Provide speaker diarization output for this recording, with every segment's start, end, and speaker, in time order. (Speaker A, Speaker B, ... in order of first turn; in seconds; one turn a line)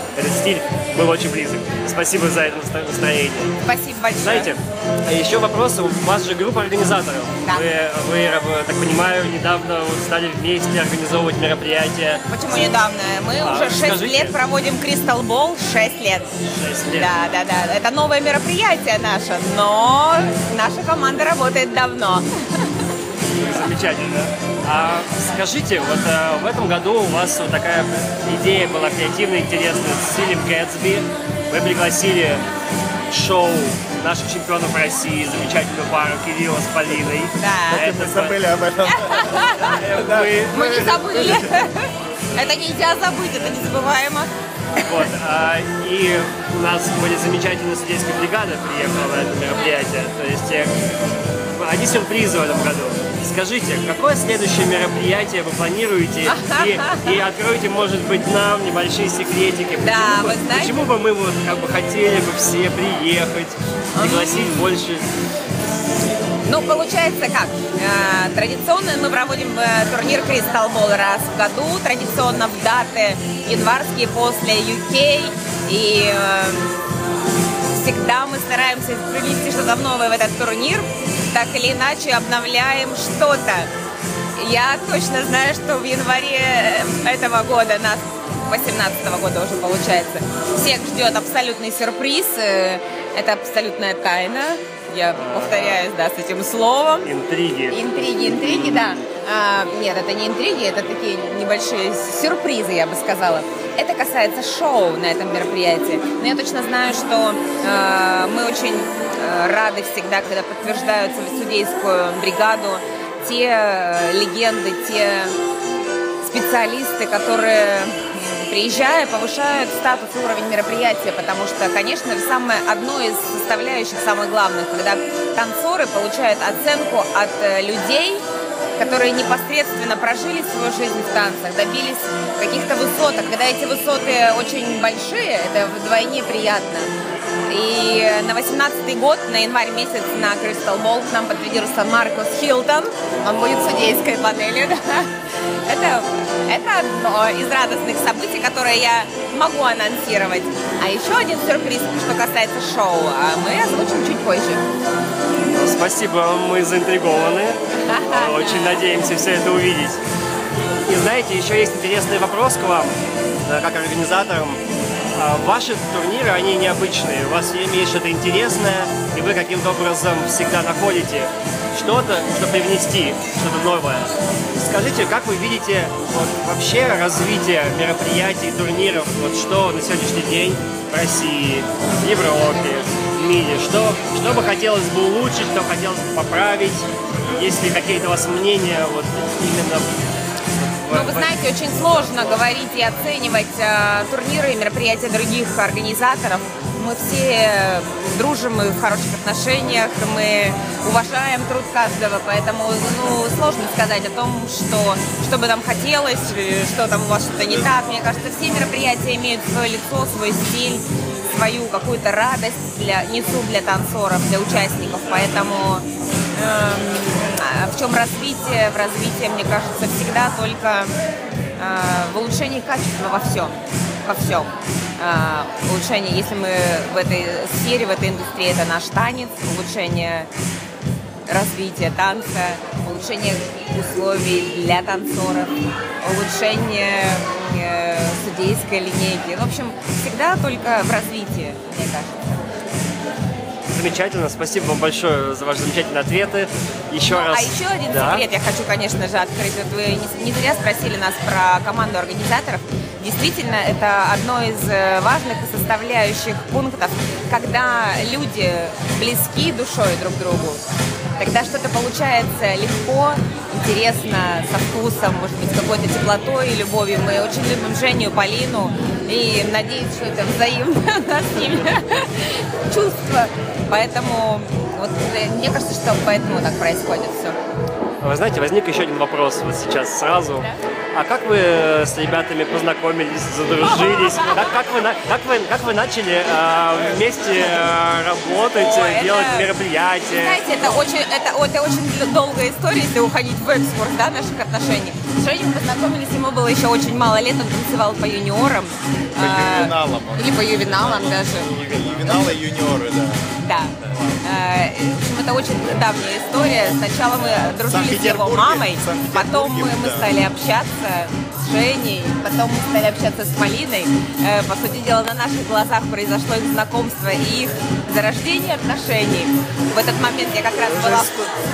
Speaker A: 0.2-3.5
Speaker B: 3.6-4.5
Speaker A: 4.2-12.2
Speaker B: 7.4-7.7
Speaker B: 12.3-16.3
Speaker A: 13.4-14.3
Speaker A: 16.4-17.1
Speaker B: 17.0-22.7
Speaker A: 23.4-32.4
Speaker A: 33.1-38.4
Speaker B: 37.4-37.9
Speaker C: 37.7-41.5
Speaker B: 38.9-39.8
Speaker A: 39.5-40.7
Speaker B: 40.5-44.3
Speaker A: 44.8-50.7
Speaker A: 51.6-65.1
Speaker B: 56.3-57.2
Speaker B: 59.8-60.8
Speaker B: 63.9-64.7
Speaker B: 66.5-76.8
Speaker B: 77.7-83.7
Speaker B: 84.4-97.1
Speaker A: 95.2-95.8
Speaker A: 97.0-97.9
Speaker B: 97.7-115.4
Speaker B: 116.2-128.2
Speaker B: 128.8-136.9
Speaker B: 137.5-145.1
Speaker B: 145.7-154.7
Speaker A: 155.5-160.0
Speaker B: 157.9-158.8
Speaker A: 160.9-164.6
Speaker A: 165.2-190.0
Speaker A: 190.6-192.4
Speaker B: 190.9-220.9
Speaker B: 221.6-230.3
Speaker B: 231.3-242.4
Speaker A: 243.7-248.2
Speaker B: 247.1-260.6
Speaker B: 261.2-277.4
Speaker A: 278.0-290.4
Speaker B: 288.6-289.5
Speaker B: 290.1-302.4
Speaker C: 299.2-303.3
Speaker B: 303.4-321.1
Speaker C: 303.8-304.2
Speaker C: 307.3-310.1
Speaker C: 320.6-321.3